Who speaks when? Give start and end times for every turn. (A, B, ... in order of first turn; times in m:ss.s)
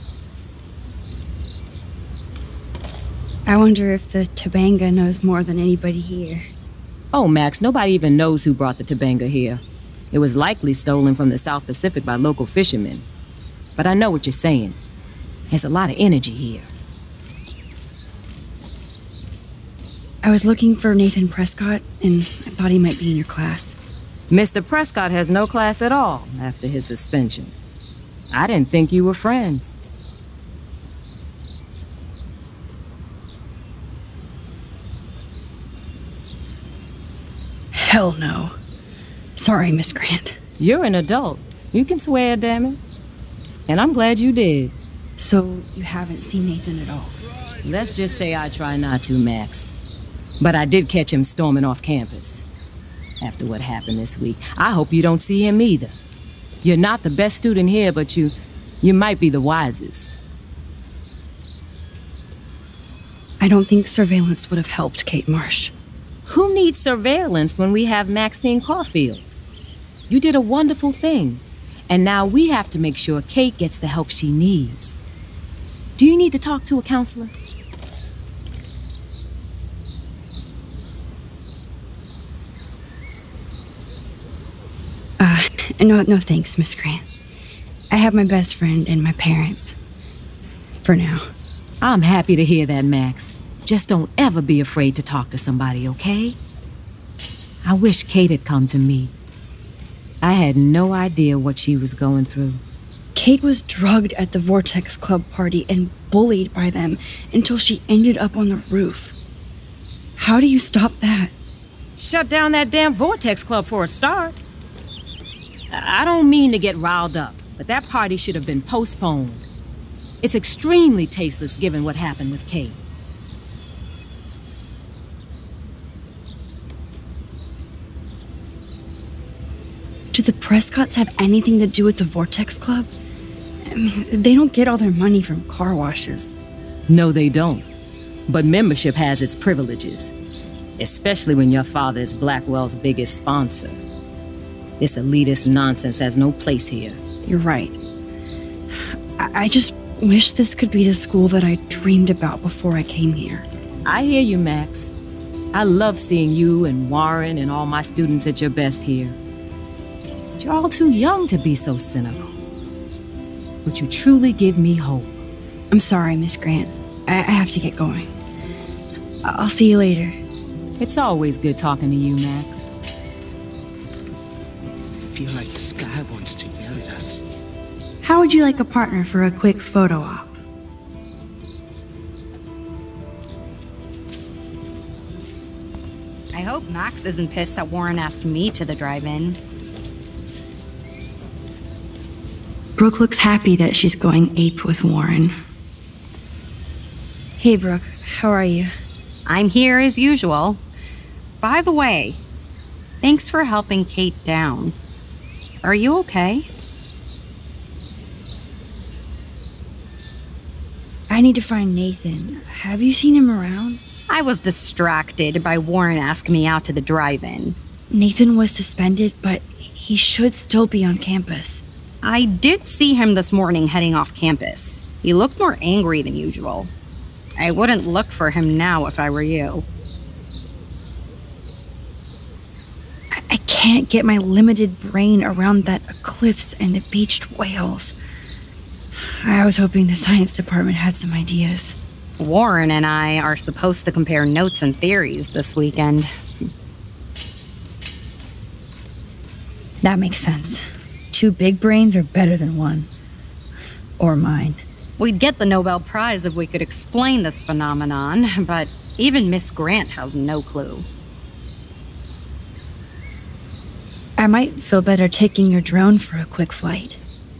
0:03.5-0:06.4 A
0:07.1-0:13.0 B
0:13.8-0:14.8 B
0:15.5-0:16.7 B
0:20.2-0:23.8 A
0:24.3-0:27.5 B
0:28.3-0:29.8 B
0:37.7-0:38.5 A
0:39.4-0:40.4 A
0:40.6-0:42.8 B
0:43.7-0:44.7 B
0:45.2-0:47.1 A
0:47.6-0:49.7 B
0:50.4-0:52.4 B
0:53.2-0:56.0 B
0:56.6-1:00.1 B
1:03.4-1:05.7 A
1:06.3-1:09.3 B
1:10.1-1:15.0 B
1:16.0-1:17.3 B
1:25.2-1:27.0 A
1:27.9-1:29.8 A
1:30.8-1:31.3 A
1:31.8-1:36.4 B
1:37.6-1:39.1 B
1:40.2-1:42.6 B
1:43.1-1:49.1 A
1:50.2-1:51.3 A
1:52.0-1:54.4 B
1:55.7-1:59.4 B
2:00.2-2:02.8 B
2:10.1-2:12.9 A
2:13.7-2:16.3 A
2:16.9-2:17.6 B
2:18.3-2:20.1 B
2:20.8-2:23.8 B
2:24.8-2:27.0 B
2:27.2-2:27.8 A
2:28.7-2:33.4 A
2:33.8-2:34.9 B
2:35.5-2:39.2 B
2:40.4-2:42.4 B
2:43.6-2:45.2 B
2:45.7-2:48.1 A
2:49.2-2:50.2 A
2:50.8-2:52.7 B
2:55.1-2:57.2 C
2:58.0-3:00.4 A
3:06.3-3:09.2 D
3:12.8-3:15.3 A
3:17.4-3:18.7 A
3:19.3-3:20.6 D
3:21.6-3:22.1 D
3:23.0-3:24.7 D
3:25.6-3:26.4 D
3:31.1-3:33.8 A
3:34.1-3:37.5 D
3:37.9-3:41.6 A
3:42.2-3:46.7 D
3:47.4-3:49.6 D
3:53.1-3:57.9 A
3:59.2-4:01.8 A
4:02.2-4:06.1 D
4:09.8-4:12.9 A
4:14.0-4:14.6 A
4:15.0-4:20.8 D
4:24.2-4:27.0 A